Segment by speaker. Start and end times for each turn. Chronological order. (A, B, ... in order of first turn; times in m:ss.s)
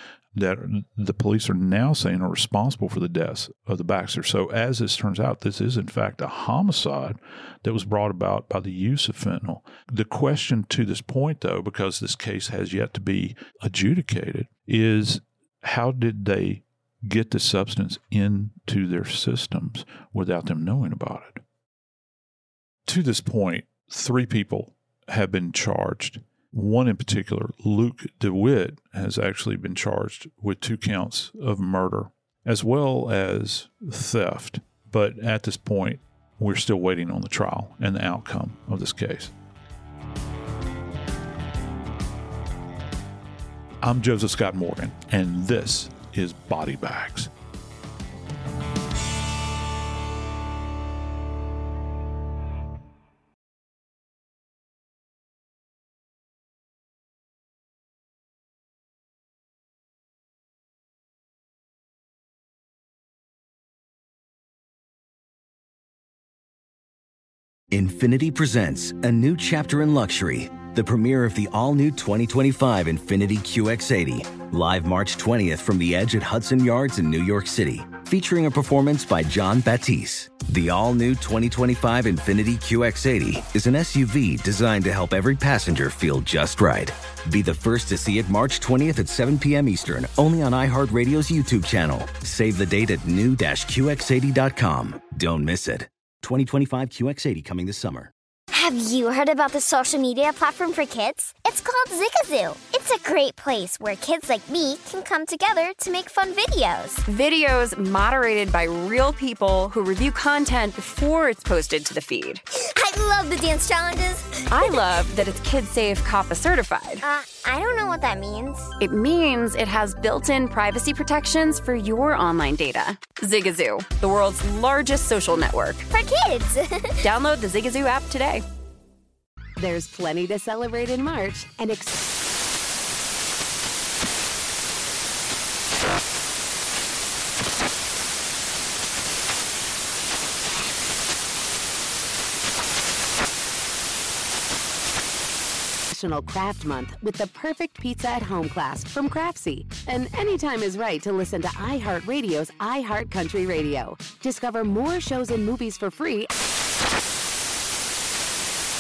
0:00.4-0:21.4 A
0:22.9-0:39.3 A
0:43.8-0:47.3 A
1:07.7-1:38.1 B
1:38.5-1:47.0 C
1:47.1-1:52.4 D
1:52.6-1:54.9 C
1:54.5-1:57.0 D
1:57.0-1:58.7 C
1:58.8-2:05.9 D
2:05.9-2:07.0 C
2:07.0-2:08.4 D
2:09.6-2:12.0 E
2:25.9-2:36.3 E